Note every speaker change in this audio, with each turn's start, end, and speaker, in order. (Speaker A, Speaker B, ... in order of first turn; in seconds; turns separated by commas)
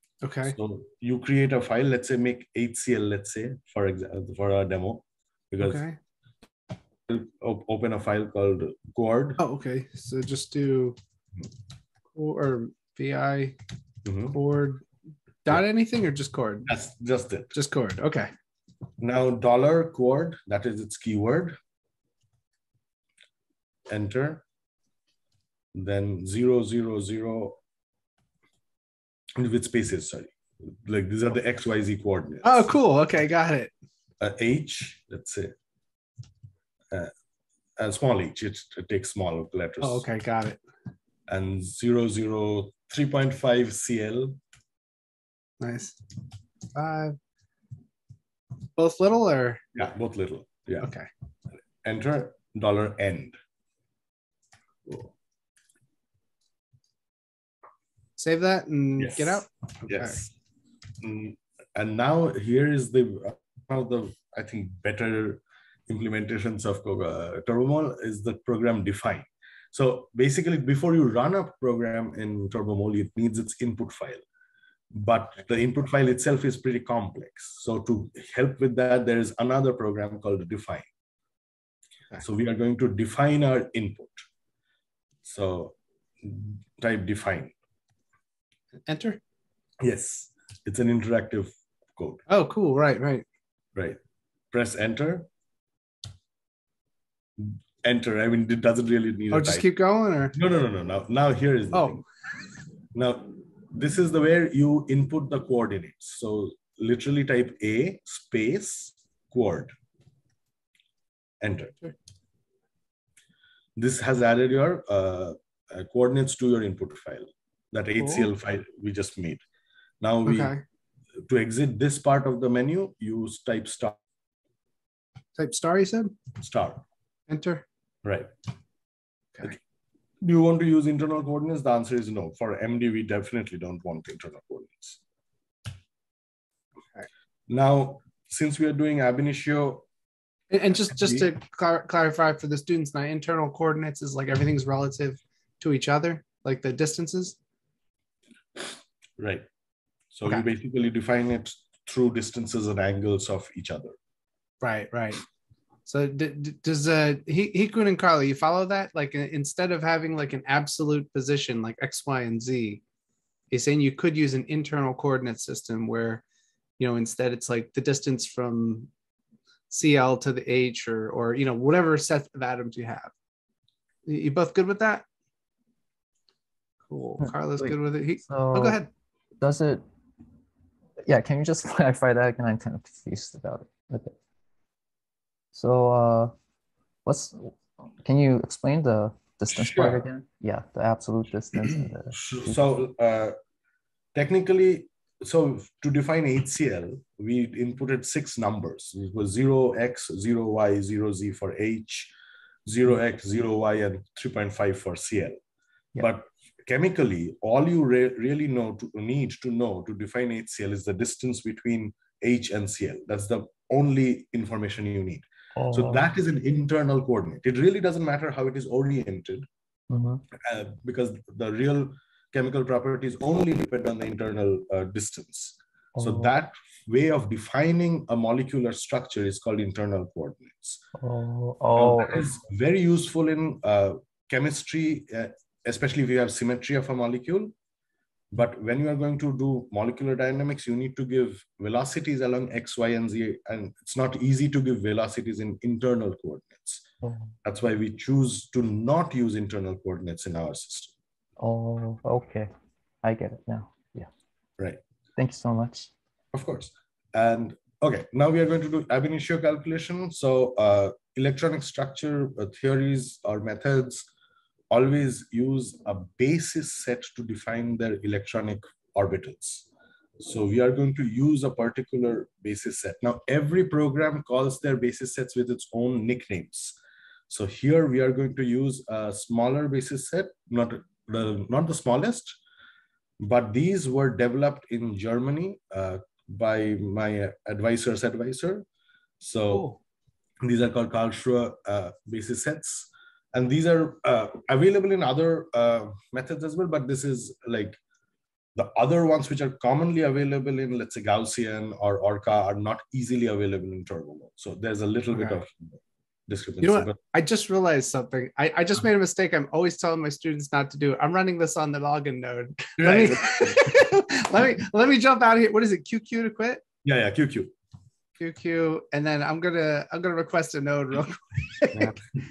Speaker A: 0.2-0.5, Speaker B: 0.5-5.8, Speaker A: 5.6-6.0, Speaker B: 7.1-9.4, Speaker A: 9.4-11.0, Speaker A: 12.1-13.6, Speaker B: 14.0-14.3, Speaker A: 14.3-14.8, Speaker A: 15.4-16.7, Speaker B: 16.6-17.5, Speaker A: 17.5-18.3, Speaker B: 19.0-21.6, Speaker B: 23.9-24.4, Speaker B: 25.7-27.6, Speaker B: 29.4-32.7, Speaker A: 32.4-33.7, Speaker B: 34.2-35.5, Speaker B: 37.8-40.0, Speaker A: 39.8-40.6, Speaker B: 41.3-44.4, Speaker A: 45.6-46.0, Speaker A: 46.7-47.2, Speaker A: 48.8-49.6, Speaker B: 49.7-50.9, Speaker A: 50.8-51.1, Speaker B: 51.8-53.4, Speaker A: 58.2-60.2, Speaker B: 59.0-60.3, Speaker B: 61.0-74.2, Speaker B: 74.9-80.8, Speaker B: 82.2-84.2, Speaker B: 85.2-87.5, Speaker A: 88.9-89.2, Speaker B: 89.8-92.2, Speaker A: 92.3-93.2, Speaker B: 94.5-95.3, Speaker B: 97.4-99.7, Speaker A: 99.3-100.3, Speaker B: 100.3-102.0, Speaker A: 101.7-102.0, Speaker B: 102.9-109.7, Speaker B: 111.4-111.8, Speaker B: 113.8-119.4, Speaker A: 118.0-118.3, Speaker B: 120.0-120.5, Speaker A: 120.2-120.6, Speaker B: 121.2-124.0, Speaker A: 125.4-126.1, Speaker B: 126.4-126.8, Speaker A: 127.3-127.6, Speaker B: 128.0-128.3, Speaker B: 130.2-135.0, Speaker B: 137.5-139.8, Speaker A: 140.5-147.4, Speaker B: 140.9-141.3, Speaker B: 149.2-149.4, Speaker B: 150.1-154.0, Speaker A: 154.6-155.2, Speaker A: 155.8-162.8, Speaker A: 163.5-166.2, Speaker A: 166.8-168.9, Speaker A: 169.7-173.1, Speaker A: 174.1-175.1, Speaker A: 176.9-178.9, Speaker C: 177.2-178.8, Speaker C: 179.4-179.8, Speaker C: 181.1-184.2, Speaker C: 185.5-186.3, Speaker C: 187.0-192.6, Speaker B: 189.5-190.0, Speaker B: 191.6-193.4, Speaker B: 194.1-202.1, Speaker B: 202.7-205.4, Speaker B: 206.0-219.5, Speaker C: 215.6-216.1, Speaker C: 219.9-220.2, Speaker B: 220.3-230.8, Speaker C: 225.9-226.3, Speaker C: 231.0-232.2, Speaker B: 231.7-237.5, Speaker B: 238.3-246.8, Speaker C: 247.0-247.3, Speaker B: 247.4-250.9, Speaker C: 251.4-252.5, Speaker C: 253.0-254.1, Speaker C: 255.2-255.9, Speaker B: 256.3-264.1, Speaker B: 264.7-269.7, Speaker B: 270.2-276.8, Speaker B: 277.3-282.4, Speaker B: 283.2-288.6, Speaker B: 289.2-289.7, Speaker A: 289.5-289.8, Speaker B: 290.4-297.8, Speaker B: 298.5-307.0, Speaker A: 306.6-316.6, Speaker B: 312.8-313.7, Speaker B: 316.8-317.5, Speaker A: 318.2-321.9, Speaker B: 321.7-322.0